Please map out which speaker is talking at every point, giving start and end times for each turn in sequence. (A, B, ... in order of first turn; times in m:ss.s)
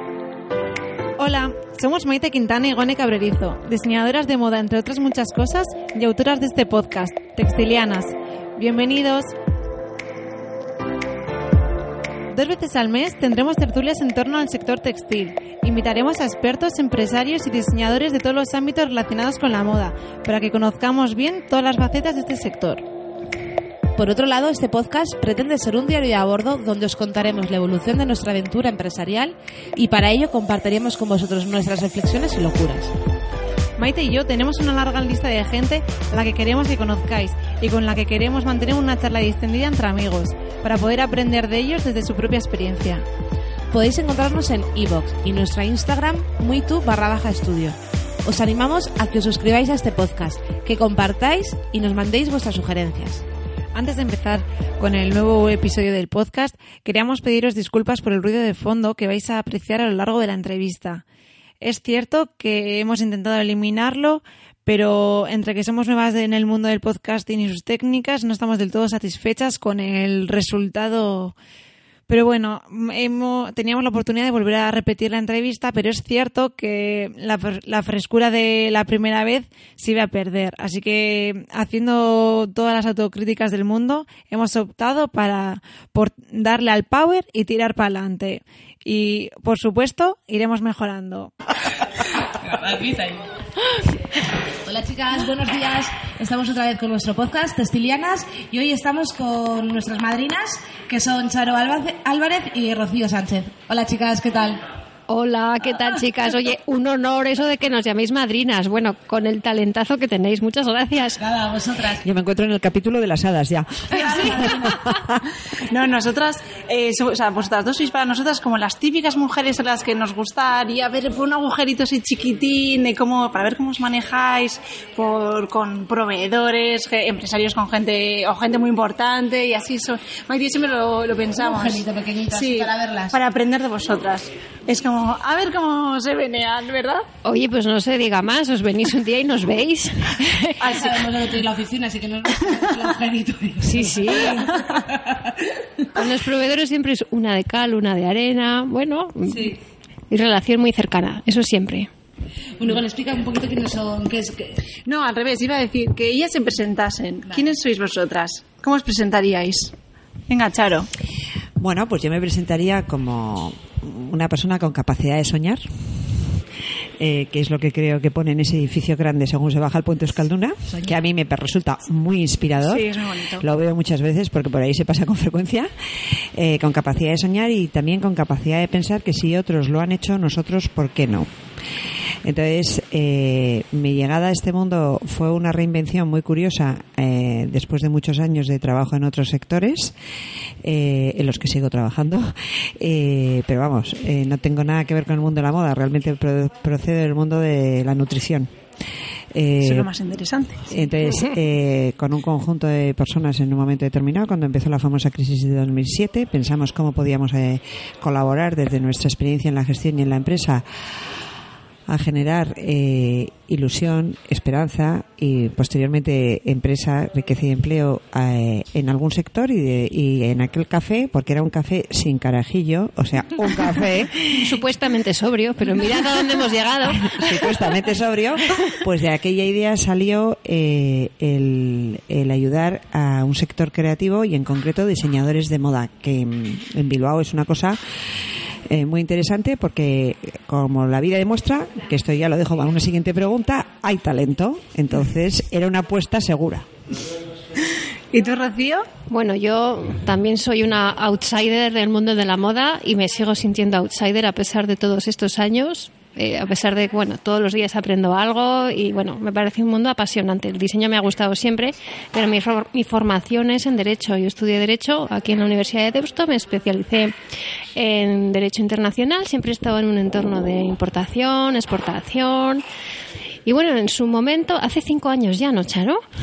0:01.2-0:09.3 A
0:12.3-0:22.8 A
0:24.0-0:32.9 B
0:33.8-0:43.0 A
0:43.7-0:53.2 B
0:53.7-1:01.0 A
1:01.6-1:11.4 A
1:12.1-1:31.3 A
1:32.1-1:33.3 B
1:34.6-1:44.6 B
1:45.1-1:51.2 C
1:51.2-1:52.0 B
1:52.0-1:55.2 D
1:53.9-1:54.8 B
1:55.5-2:17.1 E
2:11.3-2:13.2 B
2:17.2-2:20.6 C
2:20.4-2:25.8 B
2:20.7-2:21.0 E
2:23.6-2:24.6 C
2:25.9-2:29.6 C
2:29.3-2:29.5 B
2:30.1-2:31.9 C
2:32.6-2:34.6 B
2:34.8-2:39.7 E
2:40.3-2:40.9 E
2:41.6-2:46.4 D
2:47.0-3:01.3 D
2:52.6-2:53.4 E
3:02.2-3:09.9 D
3:10.6-3:18.5 D
3:19.3-3:19.9 D
3:19.6-3:20.8 E
3:20.7-3:30.6 D
3:31.9-3:44.5 D
3:44.3-3:47.4 C
3:47.0-3:57.8 D
3:58.7-4:06.7 D
4:08.1-4:08.9 E
4:09.0-4:27.2 C
4:27.7-4:32.6 C
4:33.4-4:36.0 C